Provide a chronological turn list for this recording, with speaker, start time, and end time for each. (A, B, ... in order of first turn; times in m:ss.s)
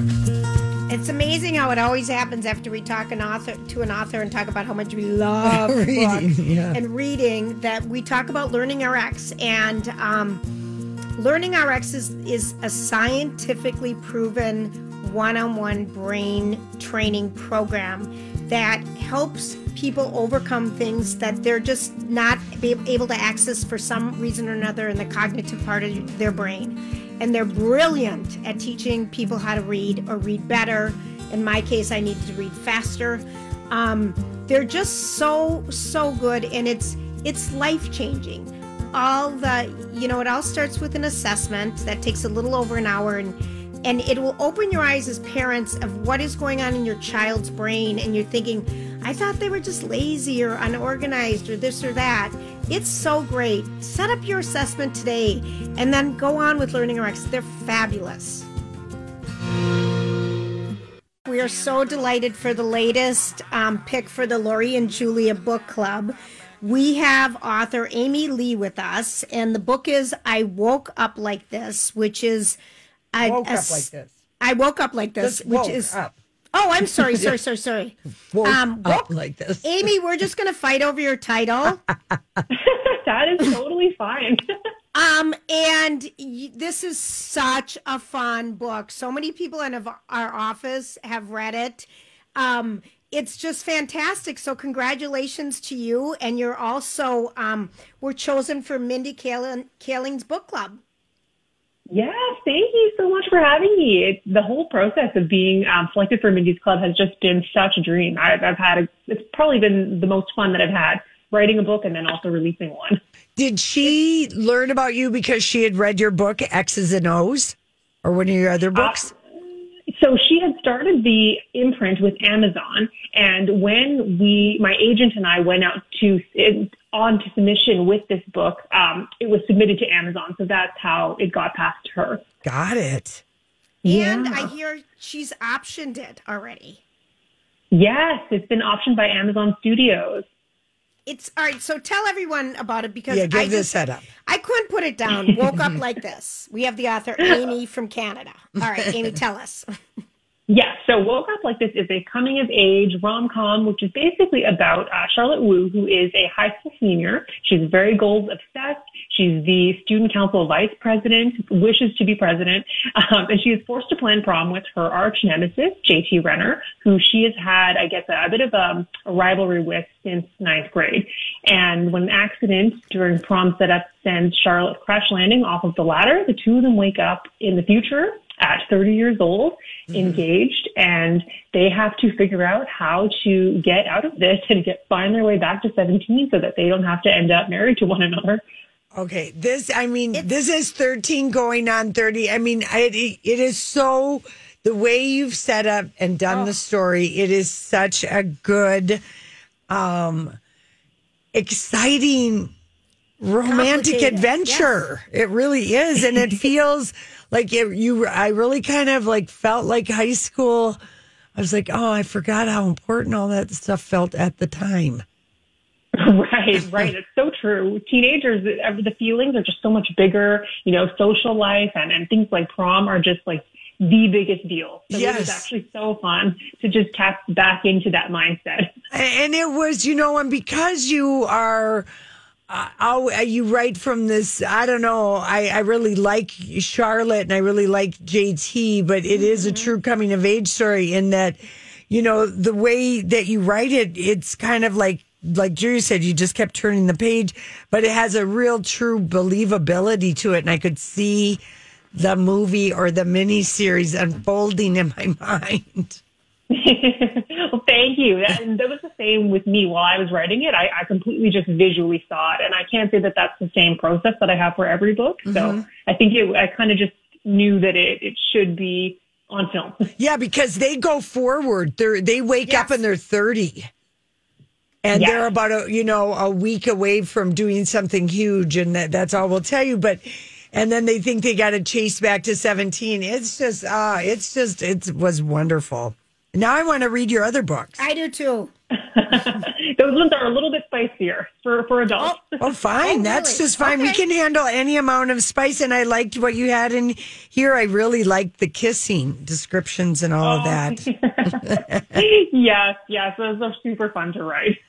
0:00.9-0:10.4 A
0:05.4-0:06.8 B
0:11.2-0:58.5 A
1:01.2-1:12.6 A
1:13.1-1:13.9 A
1:13.2-1:14.1 B
1:14.4-1:16.0 A
1:15.2-1:16.1 B
1:16.5-1:19.1 A
1:17.0-1:17.3 B
1:18.3-1:19.9 B
1:19.6-1:21.8 A
1:22.5-1:24.4 C
1:24.9-1:40.8 A
1:41.9-1:53.0 C
1:53.4-1:59.1 B
1:58.7-1:59.1 C
1:59.9-2:12.2 C
2:12.4-2:13.2 B
2:13.8-2:14.5 C
2:13.8-2:16.8 A
2:17.7-2:20.2 C
2:21.0-2:23.7 A
2:23.1-2:24.1 B
2:24.2-2:29.6 A
2:30.5-3:08.4 C
2:59.9-3:00.2 B
3:08.9-3:19.0 B
3:16.3-3:16.5 A
3:19.7-3:20.4 B
3:21.3-3:22.5 B
3:23.2-3:30.8 B
3:23.4-3:24.8 A
3:31.4-3:35.0 B
3:35.9-3:48.7 C
3:44.9-3:45.4 B
3:48.9-3:51.9 B
3:52.5-4:01.4 B
3:59.1-3:59.8 A
4:01.9-4:11.4 B
4:11.9-4:16.0 B
4:16.5-4:29.9 C
4:25.3-4:25.6 B
4:30.0-4:33.7 B
4:32.4-4:32.8 A
4:34.8-4:47.8 B
4:34.9-4:35.3 C
4:47.8-4:48.5 A
4:48.8-4:52.4 C
4:52.4-5:02.0 B
4:52.8-4:54.0 A
5:00.2-5:04.6 C